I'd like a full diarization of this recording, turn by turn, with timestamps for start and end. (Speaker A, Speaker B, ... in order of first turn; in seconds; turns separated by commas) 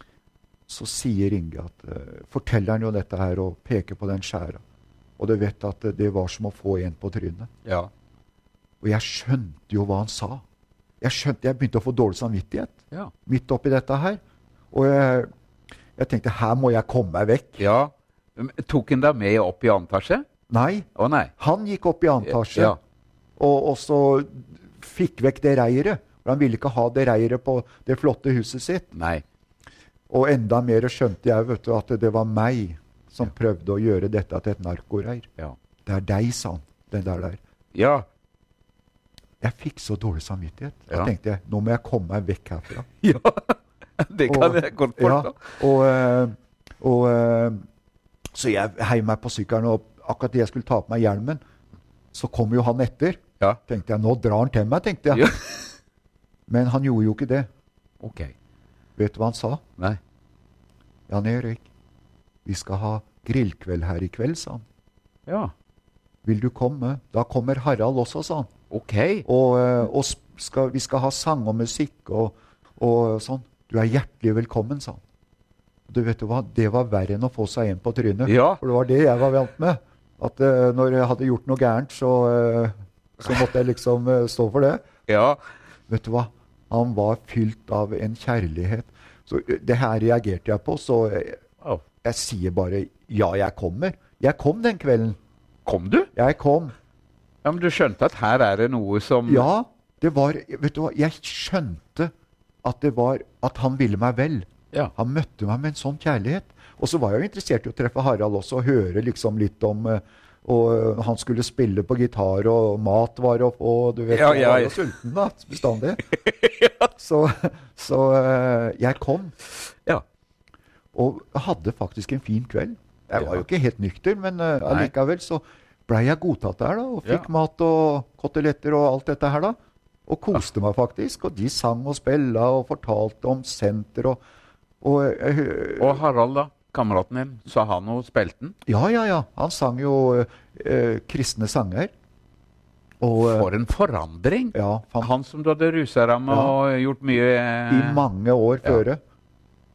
Speaker A: 0.7-4.6, Speaker A: 5.2-7.5, Speaker A: 8.8-10.4, Speaker A: 11.0-14.2, Speaker A: 14.7-15.3, Speaker A: 16.0-17.6, Speaker B: 17.6-20.2, Speaker A: 20.5-22.8, Speaker B: 20.9-21.3, Speaker B: 22.3-22.8, Speaker A: 23.4-28.9, Speaker B: 28.9-29.2, Speaker A: 30.1-35.3, Speaker A: 35.9-37.4, Speaker B: 37.7-38.0, Speaker A: 39.4-42.9, Speaker B: 43.0-45.6, Speaker A: 44.3-47.6, Speaker A: 48.3-51.4, Speaker A: 52.1-55.3, Speaker B: 55.1-55.6, Speaker A: 56.5-57.5, Speaker B: 58.0-58.3, Speaker A: 59.0-59.6, Speaker A: 61.1-61.6, Speaker A: 62.4-64.6, Speaker B: 65.3-65.5, Speaker A: 66.2-68.5, Speaker B: 68.7-69.2, Speaker A: 69.2-75.0, Speaker A: 75.9-84.8, Speaker B: 78.2-78.6, Speaker B: 85.1-85.4, Speaker A: 85.9-91.4, Speaker A: 92.0-95.2, Speaker B: 95.7-96.1, Speaker A: 96.1-96.7, Speaker B: 97.4-99.5, Speaker A: 99.3-102.1, Speaker A: 102.6-116.0, Speaker B: 114.1-114.9, Speaker B: 116.2-116.9, Speaker A: 117.0-119.3, Speaker A: 120.9-134.2, Speaker A: 134.8-136.0, Speaker B: 135.8-138.5, Speaker A: 138.7-141.9, Speaker A: 143.0-143.5, Speaker B: 143.2-148.0, Speaker A: 144.5-145.1, Speaker A: 146.3-146.5, Speaker A: 147.7-149.0